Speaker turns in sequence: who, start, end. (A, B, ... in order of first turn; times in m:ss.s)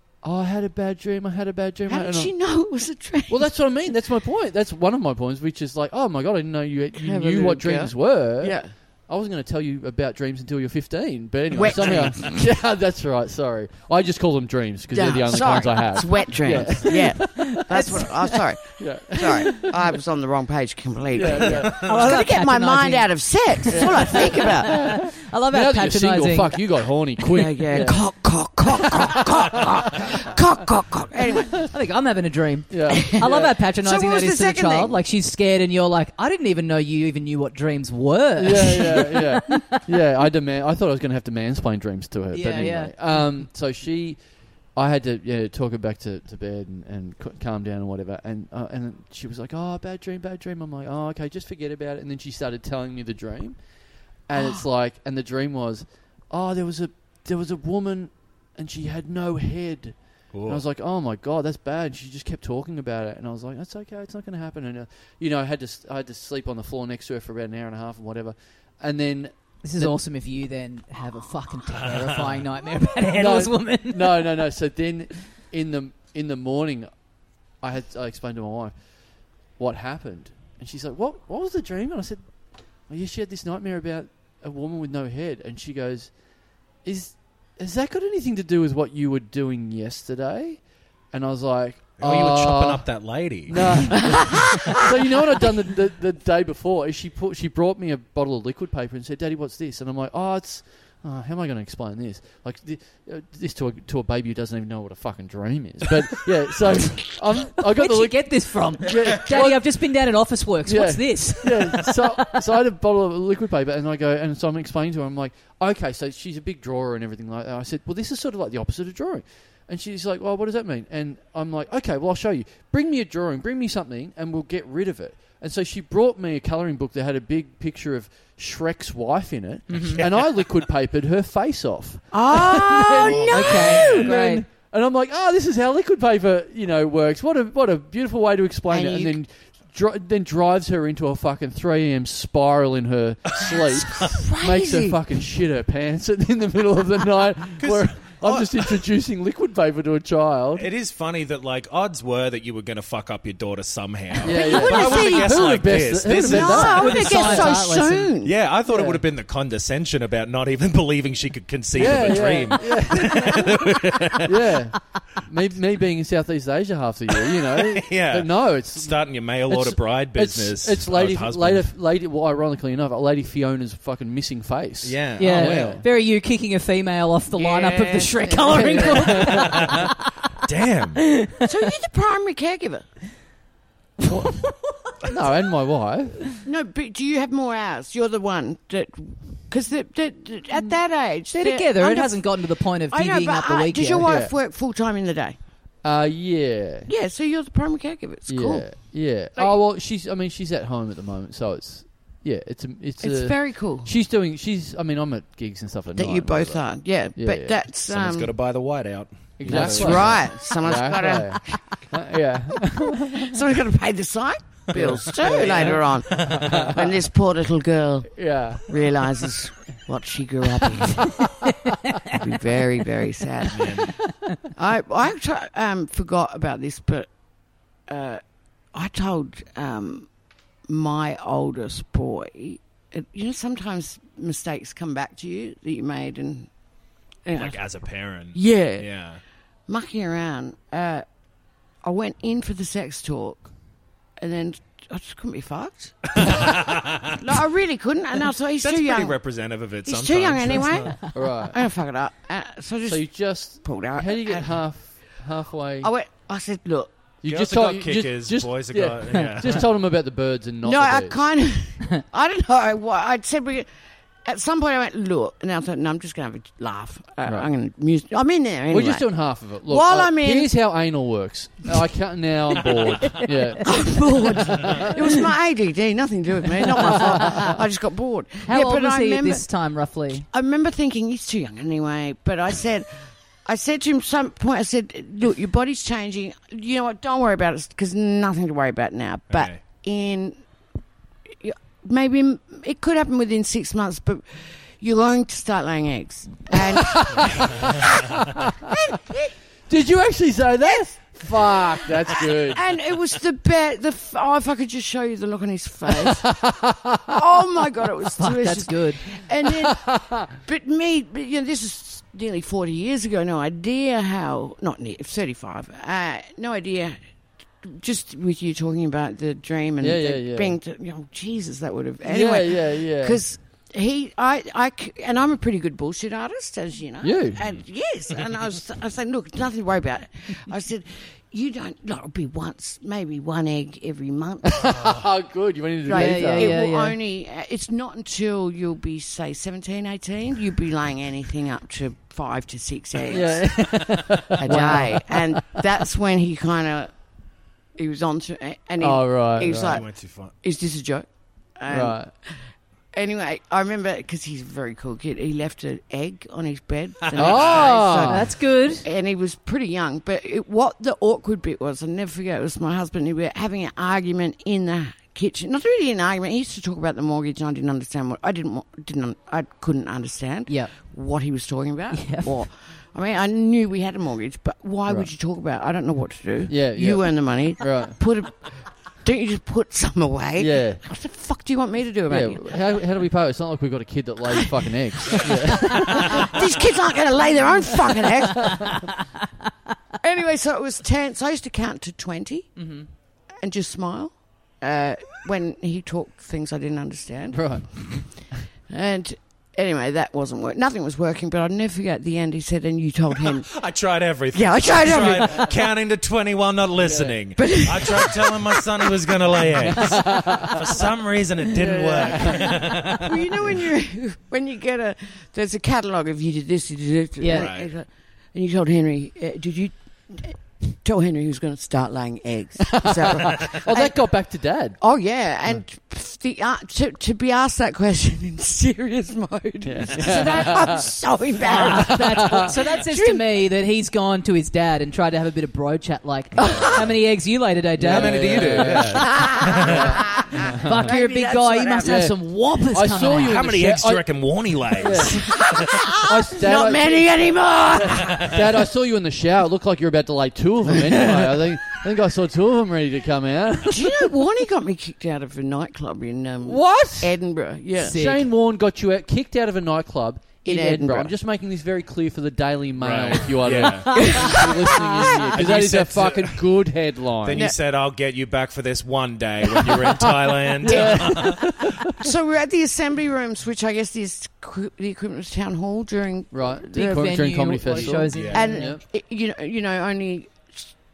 0:00.2-0:02.3 A
0:01.9-0:03.5 B
0:03.3-0:18.0 A
0:07.0-0:08.7 B
0:11.5-0:12.4 B
0:14.9-0:25.0 B
0:16.9-0:18.3 C
0:18.8-0:19.8 A
0:21.1-0:21.8 A
0:21.3-0:21.9 D
0:21.8-0:26.6 C
0:23.7-0:28.0 A
0:27.3-0:31.7 B
0:31.6-0:39.8 C
0:32.7-0:33.5 A
0:32.9-0:33.2 B
0:33.8-0:35.0 B
0:38.4-0:44.2 A
0:42.3-0:43.3 C
0:44.7-0:53.6 A
0:54.3-1:09.9 A
0:54.3-0:54.6 B
1:00.3-1:00.6 D
1:09.6-1:14.3 C
1:13.1-1:16.9 A
1:17.6-1:18.9 A
1:19.6-1:22.3 A
1:22.9-1:26.1 A
1:26.8-1:49.7 A
1:32.0-1:34.0 D
1:34.1-1:34.4 B
1:47.7-1:52.3 C
1:50.6-2:30.7 A
2:09.7-2:10.0 C
2:09.7-2:10.4 D
2:12.1-2:14.1 B
2:13.0-2:14.0 D
2:13.3-2:14.4 C
2:18.7-2:19.1 B
2:23.8-2:25.0 B
2:27.6-2:28.8 D
2:30.5-2:37.4 D
2:34.2-2:38.3 B
2:34.2-2:37.6 A
2:36.4-2:38.1 C
2:38.2-2:44.5 D
2:38.7-2:39.0 A
2:41.7-2:43.7 A
2:44.2-2:55.8 A
2:47.5-2:51.7 D
2:54.8-2:55.8 D
2:55.2-3:00.1 C
2:57.3-2:59.2 B
2:58.4-2:59.6 A
2:59.2-2:59.9 D
3:00.4-3:01.0 D
3:01.0-3:01.6 C
3:01.4-3:02.8 B
3:04.0-3:04.4 A
3:05.0-3:06.3 A
3:06.4-3:15.4 B
3:11.3-3:14.1 C
3:14.0-3:14.3 A
3:15.8-3:16.9 A
3:16.8-3:19.6 B
3:18.3-3:27.6 A
3:23.0-3:23.9 B
3:25.9-3:28.3 B
3:27.8-3:30.3 D
3:29.4-3:31.8 B
3:29.4-3:33.4 A
3:33.1-3:41.4 B
3:34.7-3:37.0 A
3:34.8-3:36.8 D
3:38.1-3:38.7 A
3:41.5-3:42.0 C
3:42.1-3:47.1 B
3:43.5-3:43.9 D
3:47.9-3:48.2 B
3:48.7-3:50.1 B
3:50.7-3:56.5 B
3:57.2-3:57.6 B
3:57.3-3:59.2 D
3:58.3-3:58.9 B
3:59.7-4:01.0 B
4:01.8-4:03.5 B
4:04.2-4:06.5 B
4:06.1-4:07.2 D
4:07.1-4:09.2 B
4:08.6-4:11.0 D
4:09.8-4:13.1 B
4:11.1-4:11.6 A
4:12.8-4:15.9 A
4:13.6-4:14.5 B
4:15.8-4:17.0 B
4:17.2-4:21.2 A
4:17.2-4:19.7 D
4:20.6-4:23.7 B
4:24.2-4:30.5 B
4:28.7-4:34.9 A
4:32.6-4:39.4 B
4:37.0-4:37.5 A
4:38.4-4:40.2 C
4:40.3-4:42.9 B
4:43.4-4:50.4 B
4:49.3-4:49.6 D
4:51.4-4:58.0 B
4:56.5-4:58.7 A
4:58.7-4:59.3 B
4:59.7-5:02.6 A
5:00.6-5:06.5 B
5:05.9-5:07.1 A
5:07.1-5:17.0 B
5:08.2-5:09.0 C
5:09.5-5:10.2 A
5:17.6-5:35.0 B
5:19.8-5:20.6 A
5:22.0-5:23.2 A
5:27.0-5:27.4 A
5:34.4-5:36.6 A
5:35.8-5:47.0 B
5:35.9-5:37.0 C
5:43.1-5:45.6 A
5:44.4-5:45.0 C
5:47.8-5:52.4 B
5:48.8-5:49.8 A
5:49.4-5:50.3 D
5:51.7-5:52.1 A
5:52.9-6:22.4 B
5:57.1-5:57.7 D
5:57.2-5:58.3 A
5:58.0-5:58.8 C
6:10.5-6:10.7 C
6:11.9-6:12.4 C
6:16.5-6:18.0 A
6:20.4-6:20.8 A
6:22.1-6:26.4 A
6:24.3-6:28.9 B
6:28.4-6:29.0 C
6:30.0-6:32.6 B
6:32.6-6:32.9 C
6:33.4-6:38.0 B
6:37.3-6:38.4 A
6:38.7-6:43.6 B
6:43.2-6:53.4 D
6:44.3-6:45.6 B
6:46.8-6:47.2 A
6:47.4-6:48.6 B
6:49.7-6:50.5 A
6:51.5-6:52.6 A
6:51.9-7:04.0 B
6:57.2-6:57.5 C
6:57.3-6:57.7 D
7:02.7-7:04.8 A
7:04.8-7:13.2 B
7:09.6-7:10.9 A
7:11.4-7:18.8 C
7:11.5-7:12.5 A
7:16.4-7:16.8 B
7:17.8-7:20.9 A
7:17.8-7:20.0 D
7:18.9-7:22.0 B
7:20.6-7:23.4 C
7:21.8-7:24.0 A
7:23.1-7:25.7 D
7:24.7-7:25.4 A
7:25.0-7:28.4 B
7:26.0-7:27.1 A
7:27.8-7:34.2 A
7:31.0-7:31.4 B
7:33.7-7:38.0 B
7:36.4-7:37.2 A
7:37.8-7:38.3 C
7:37.8-7:47.5 A
7:40.4-7:41.1 B
7:42.8-7:44.3 D
7:43.9-7:45.5 B
7:45.3-7:46.4 D
7:47.2-7:51.6 D
7:47.3-7:47.6 B
7:49.6-7:49.9 B
7:50.6-7:51.9 A
7:50.6-7:57.0 B
7:56.3-7:58.8 A
7:56.7-7:58.7 C
7:57.6-8:00.7 B
7:58.1-7:58.5 D